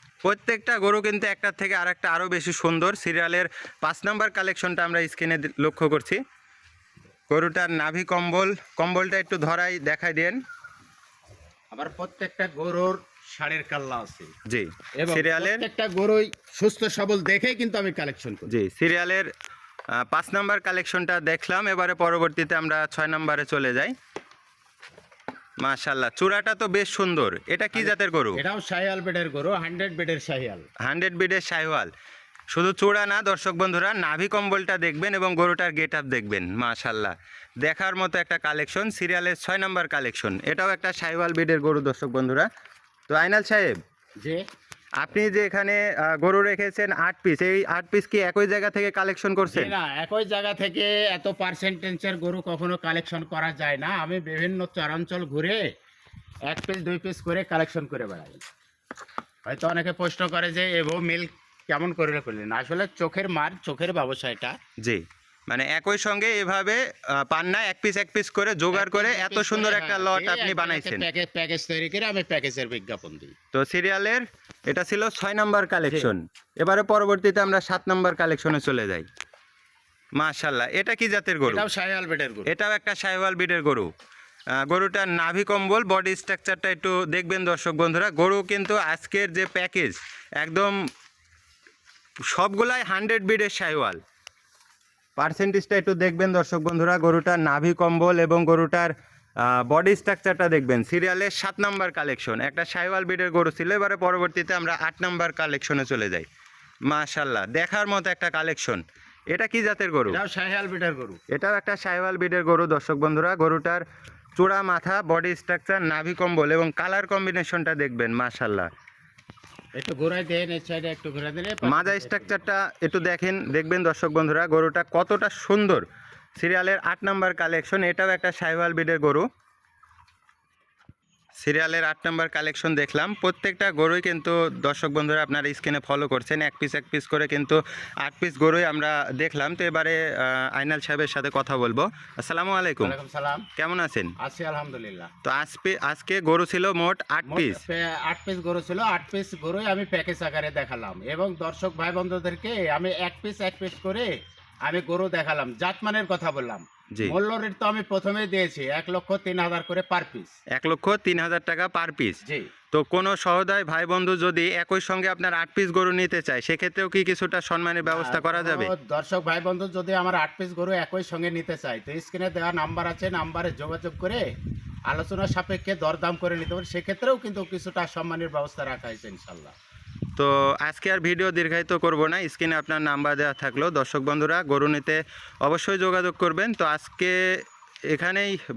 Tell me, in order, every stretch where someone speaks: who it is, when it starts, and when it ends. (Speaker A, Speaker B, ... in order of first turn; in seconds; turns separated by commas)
Speaker A: 0.2-6.2, Speaker A: 7.3-10.4, Speaker B: 11.7-14.3, Speaker A: 14.5-15.6, Speaker B: 15.0-18.5, Speaker A: 18.5-19.3, Speaker A: 20.0-23.9, Speaker A: 25.6-28.4, Speaker B: 27.7-30.6, Speaker A: 30.8-31.9, Speaker A: 32.5-42.5, Speaker A: 43.1-43.8, Speaker A: 45.0-49.7, Speaker B: 49.5-55.6, Speaker B: 56.5-58.4, Speaker B: 59.5-64.5, Speaker A: 64.8-71.0, Speaker B: 68.7-73.3, Speaker A: 73.5-79.0, Speaker B: 75.9-76.1, Speaker A: 80.2-81.6, Speaker B: 81.4-82.5, Speaker A: 82.5-83.9, Speaker A: 84.7-90.7, Speaker A: 92.3-94.0, Speaker A: 95.2-98.9, Speaker A: 99.4-106.2, Speaker A: 106.9-110.2, Speaker B: 110.1-111.2, Speaker A: 111.3-113.8, Speaker A: 114.4-118.7, Speaker B: 119.8-122.4, Speaker A: 121.6-125.8, Speaker A: 126.4-129.2, Speaker A: 131.4-142.9, Speaker B: 142.8-143.4, Speaker A: 143.6-144.1, Speaker B: 144.2-145.1, Speaker A: 145.2-147.6, Speaker B: 147.3-154.1, Speaker B: 154.6-160.3, Speaker A: 160.5-162.2, Speaker A: 162.7-168.7, Speaker B: 167.8-174.2, Speaker B: 174.9-179.5, Speaker A: 180.2-187.2, Speaker A: 187.9-188.4